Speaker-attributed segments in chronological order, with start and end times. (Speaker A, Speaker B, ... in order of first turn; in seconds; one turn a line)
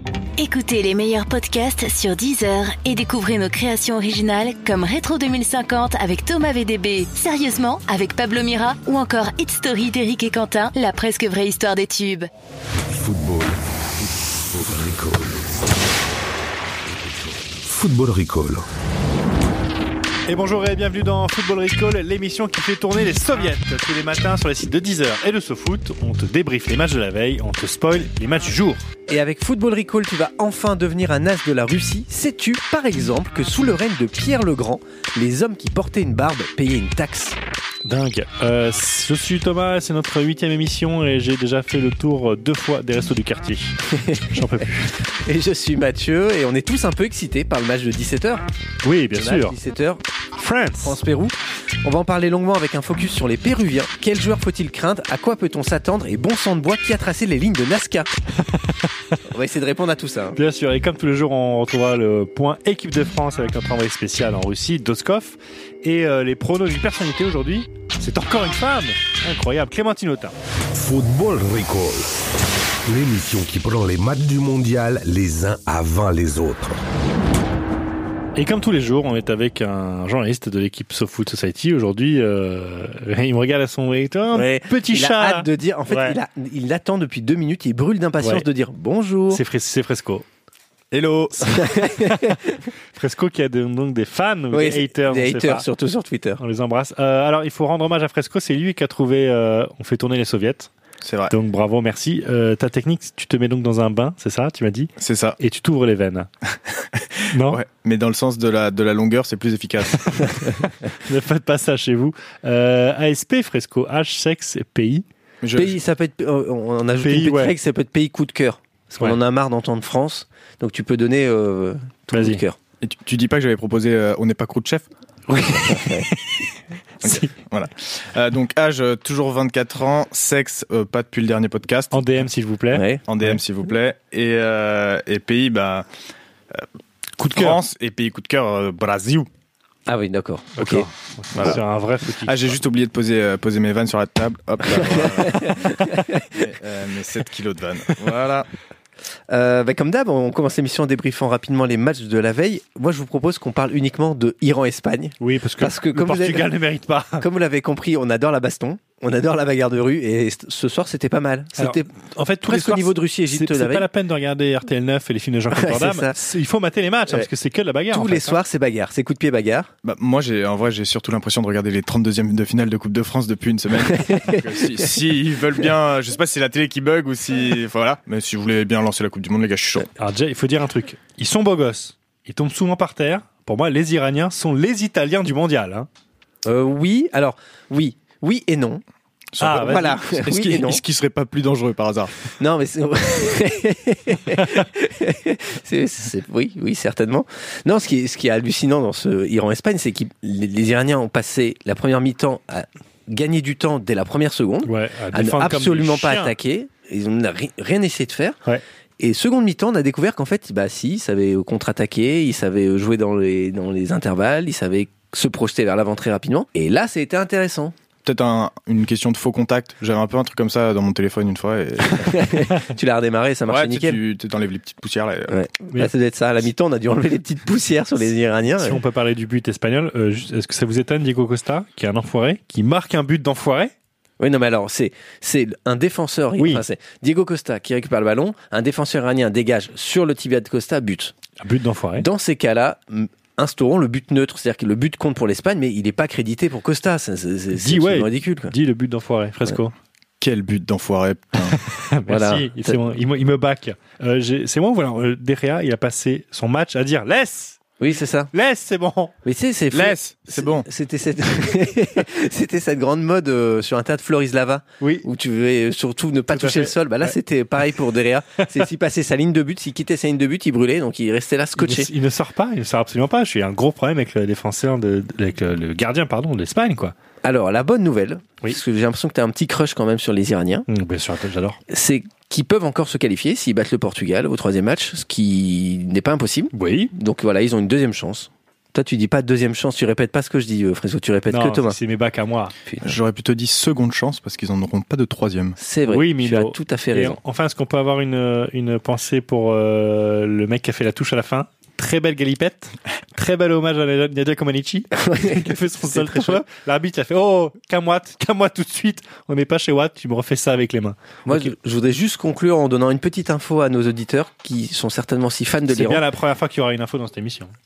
Speaker A: 0.4-12.3
Speaker B: 12.9-15.9
Speaker B: 16.9-18.7
Speaker C: 20.3-28.9
Speaker D: 29.1-37.4
Speaker C: 37.9-43.8
Speaker D: 44.0-44.4
Speaker C: 44.3-44.9
Speaker D: 45.0-48.5
Speaker C: 48.8-49.6
Speaker D: 49.1-50.0
Speaker C: 50.4-51.0
Speaker D: 50.8-58.1
Speaker D: 59.3-60.4
Speaker C: 60.4-70.3
Speaker B: 70.7-72.2
Speaker B: 72.8-76.8
Speaker C: 78.3-86.2
Speaker D: 84.3-89.4
Speaker C: 88.2-88.5
Speaker C: 89.3-90.2
Speaker E: 90.9-91.7
Speaker D: 91.6-92.4
Speaker C: 91.9-92.4
Speaker C: 93.0-95.7
Speaker D: 94.5-96.4
Speaker C: 96.4-100.7
Speaker E: 101.0-101.3
Speaker C: 101.3-106.3
Speaker E: 105.0-105.4
Speaker E: 107.2-110.5
Speaker C: 107.3-107.6
Speaker C: 111.0-115.0
Speaker E: 115.4-115.8
Speaker D: 115.5-122.6
Speaker C: 117.0-117.5
Speaker C: 122.1-122.4
Speaker E: 122.8-124.9
Speaker C: 125.3-126.5
Speaker D: 125.5-126.1
Speaker C: 127.0-127.3
Speaker E: 127.0-132.1
Speaker C: 131.9-133.4
Speaker D: 132.7-133.0
Speaker E: 133.1-135.9
Speaker C: 137.2-137.6
Speaker E: 137.3-139.3
Speaker D: 139.9-141.6
Speaker C: 140.6-142.6
Speaker E: 141.4-141.6
Speaker E: 142.3-145.7
Speaker D: 144.7-146.3
Speaker E: 146.3-148.5
Speaker D: 149.3-156.5
Speaker C: 155.2-157.2
Speaker D: 157.2-161.9
Speaker C: 161.6-168.4
Speaker D: 162.5-163.9
Speaker D: 165.5-166.2
Speaker D: 167.9-169.7
Speaker E: 169.8-179.9
Speaker D: 174.0-174.4
Speaker C: 180.0-185.9
Speaker D: 186.4-188.8
Speaker E: 189.4-192.1
Speaker C: 189.4-190.0
Speaker D: 189.4-190.8
Speaker D: 192.4-208.4
Speaker C: 204.7-206.4
Speaker D: 209.0-217.7
Speaker E: 218.1-222.2
Speaker D: 222.0-224.0
Speaker E: 223.5-225.4
Speaker D: 225.3-228.8
Speaker C: 228.6-233.7
Speaker D: 234.2-241.2
Speaker C: 236.4-236.6
Speaker C: 241.4-242.1
Speaker D: 242.0-248.5
Speaker C: 247.5-249.7
Speaker E: 250.2-251.6
Speaker C: 251.5-257.6
Speaker D: 252.1-252.8
Speaker D: 257.8-258.3
Speaker C: 258.3-259.1
Speaker D: 259.2-271.9
Speaker E: 259.7-260.7
Speaker C: 264.8-265.1
Speaker C: 266.3-267.1
Speaker C: 271.6-276.9
Speaker D: 277.2-280.7
Speaker C: 280.7-281.6
Speaker D: 281.7-291.8
Speaker C: 286.5-286.9
Speaker C: 291.3-292.5
Speaker D: 292.7-292.9
Speaker E: 292.8-295.6
Speaker D: 295.6-297.2
Speaker C: 295.9-311.5
Speaker D: 304.9-306.4
Speaker D: 311.3-316.0
Speaker C: 315.7-317.5